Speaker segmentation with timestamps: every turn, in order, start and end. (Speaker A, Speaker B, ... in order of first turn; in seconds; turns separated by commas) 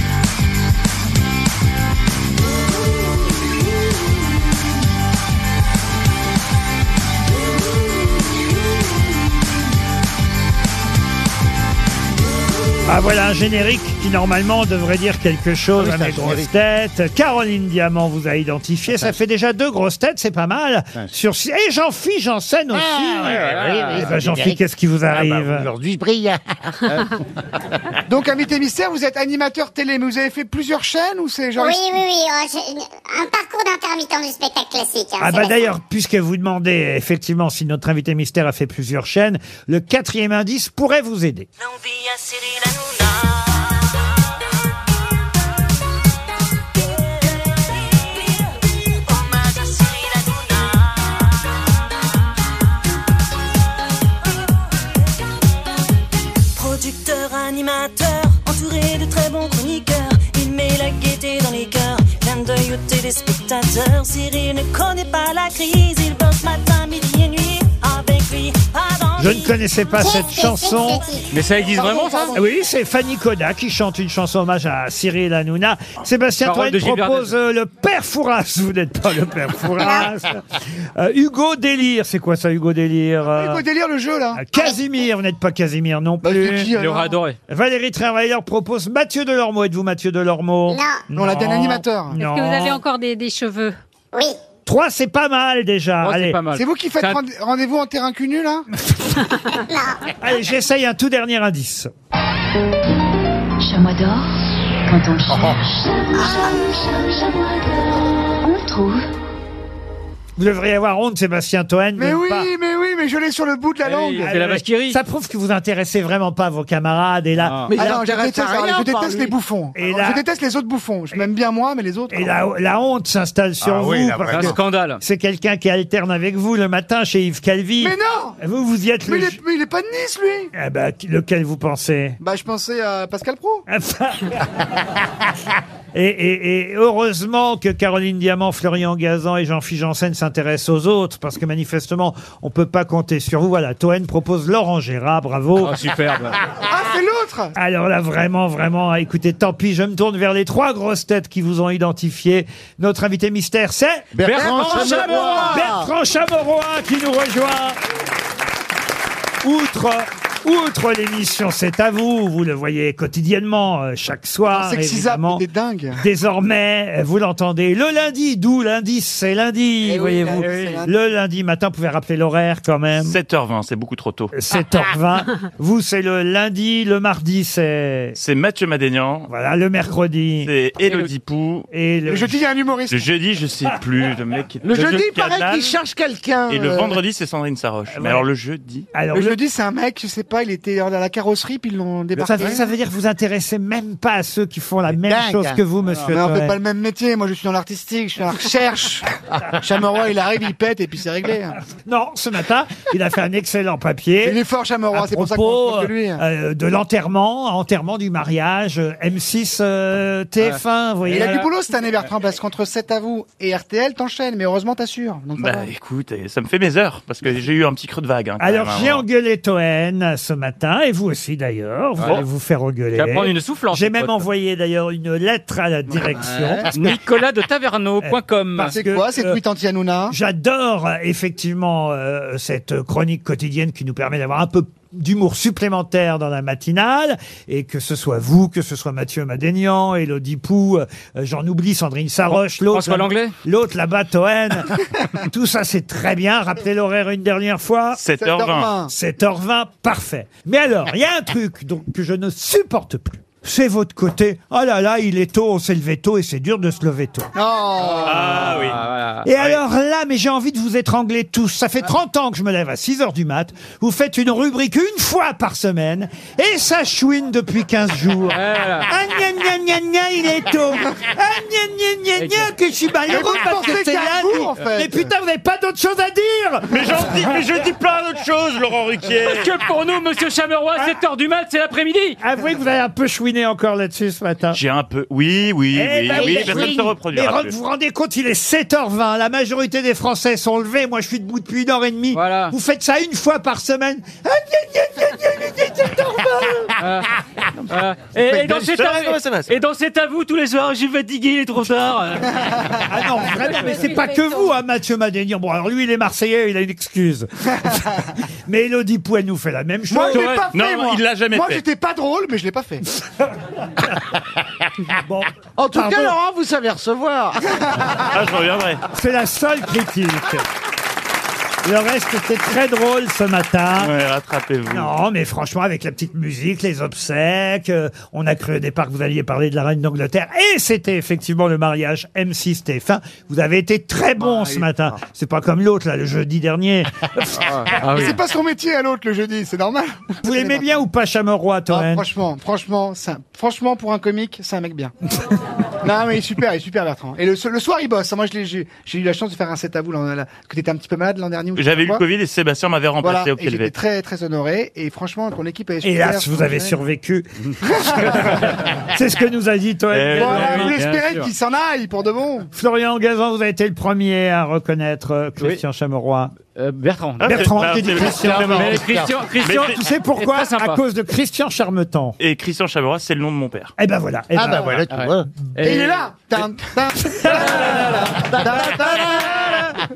Speaker A: 12.8-25.7, Speaker B: 15.7-16.5, Speaker B: 22.7-27.0, Speaker C: 23.2-24.2, Speaker D: 28.1-31.9, Speaker E: 31.6-35.7, Speaker A: 35.2-41.5, Speaker F: 41.6-43.6, Speaker F: 46.8-48.4, Speaker F: 49.1-51.0, Speaker F: 56.5-69.5, Speaker A: 69.2-71.0, Speaker E: 70.0-71.4, Speaker C: 71.3-72.4, Speaker D: 71.7-72.5, Speaker A: 72.3-80.4, Speaker C: 76.4-77.3, Speaker E: 79.8-80.1, Speaker A: 81.0-83.6, Speaker D: 83.3-84.4, Speaker A: 84.3-86.7, Speaker D: 86.2-87.2, Speaker C: 86.7-87.4, Speaker A: 87.5-92.8, Speaker E: 90.7-91.0, Speaker D: 91.1-92.2, Speaker G: 92.1-93.8, Speaker A: 94.7-96.4, Speaker C: 96.0-97.2, Speaker D: 96.5-98.7, Speaker E: 99.7-100.0, Speaker A: 100.2-101.9, Speaker H: 103.6-109.0, Speaker E: 106.1-106.8, Speaker A: 110.4-112.5, Speaker D: 112.0-114.3, Speaker C: 113.8-115.0, Speaker A: 114.2-118.0, Speaker C: 117.4-117.8, Speaker I: 117.7-119.4, Speaker D: 117.8-122.3, Speaker A: 119.7-120.2, Speaker A: 122.1-129.4, Speaker B: 123.6-124.6, Speaker C: 124.3-125.0, Speaker D: 127.8-128.4, Speaker D: 129.1-130.5, Speaker A: 130.5-132.2, Speaker D: 132.2-133.6, Speaker A: 133.7-134.4, Speaker A: 135.9-145.8, Speaker C: 145.6-146.3, Speaker D: 146.6-147.5, Speaker A: 147.6-154.3, Speaker B: 154.1-155.9, Speaker C: 154.2-155.7, Speaker I: 154.3-155.6, Speaker A: 155.3-157.8, Speaker A: 159.4-165.4, Speaker D: 164.5-166.0, Speaker A: 166.0-173.2, Speaker D: 169.8-170.9, Speaker C: 170.3-170.8, Speaker J: 173.0-174.3, Speaker A: 174.3-178.2, Speaker J: 178.2-179.3, Speaker A: 179.3-180.5, Speaker J: 180.4-181.7, Speaker A: 181.7-182.4, Speaker D: 182.1-183.1, Speaker J: 182.9-185.8, Speaker I: 184.6-187.0, Speaker J: 186.5-188.9, Speaker A: 187.9-188.3, Speaker A: 188.9-189.4, Speaker D: 189.1-192.7, Speaker A: 192.2-196.6, Speaker B: 194.9-195.6, Speaker D: 196.1-201.6, Speaker A: 201.8-204.4, Speaker D: 204.2-206.2, Speaker A: 204.9-211.5, Speaker D: 211.1-215.7, Speaker C: 211.1-211.4, Speaker J: 215.3-219.0, Speaker A: 218.4-226.7, Speaker C: 222.0-222.2, Speaker C: 222.9-224.2, Speaker D: 225.9-226.6, Speaker C: 226.7-228.8, Speaker A: 228.0-229.4, Speaker D: 228.7-230.1, Speaker A: 230.1-248.0, Speaker C: 242.3-243.3, Speaker J: 248.0-248.8, Speaker D: 248.1-248.9, Speaker A: 248.8-257.3, Speaker D: 257.3-258.4, Speaker J: 258.0-258.8, Speaker C: 258.3-259.3, Speaker A: 259.2-277.2, Speaker C: 268.3-268.9, Speaker C: 272.1-272.5, Speaker D: 273.1-275.1, Speaker J: 276.7-279.5, Speaker C: 279.2-282.2, Speaker A: 282.2-284.6, Speaker J: 284.5-287.5, Speaker A: 285.7-296.8, Speaker I: 286.1-286.7, Speaker C: 292.1-292.5, Speaker C: 296.8-297.1, Speaker C: 297.7-302.7, Speaker J: 298.2-299.5, Speaker A: 302.8-310.4, Speaker G: 303.9-304.5, Speaker D: 309.9-312.8, Speaker J: 310.1-311.6, Speaker A: 314.9-316.2, Speaker I: 315.6-318.0, Speaker D: 317.4-317.9, Speaker J: 318.1-318.8, Speaker A: 318.9-320.4, Speaker A: 321.6-323.9, Speaker J: 323.8-324.9, Speaker A: 324.6-338.0, Speaker D: 334.2-334.9, Speaker C: 337.4-338.2, Speaker D: 338.0-340.7, Speaker A: 340.2-342.1, Speaker D: 341.7-344.9, Speaker D: 345.8-352.0, Speaker J: 351.5-353.8, Speaker D: 353.0-356.7, Speaker A: 355.8-357.3, Speaker D: 357.6-358.0, Speaker A: 357.8-360.8, Speaker J: 359.9-360.5, Speaker C: 360.1-361.3, Speaker D: 360.2-362.5, Speaker A: 362.5-366.3, Speaker C: 366.5-367.5, Speaker A: 367.2-368.8, Speaker J: 367.2-368.8, Speaker B: 368.3-369.2, Speaker C: 368.4-370.8, Speaker J: 369.4-369.8, Speaker A: 369.6-372.2, Speaker J: 372.2-373.7, Speaker A: 373.8-374.9, Speaker B: 374.3-375.3, Speaker C: 374.9-376.5, Speaker D: 375.6-379.6, Speaker A: 377.1-377.6, Speaker C: 377.3-379.2, Speaker B: 378.3-379.1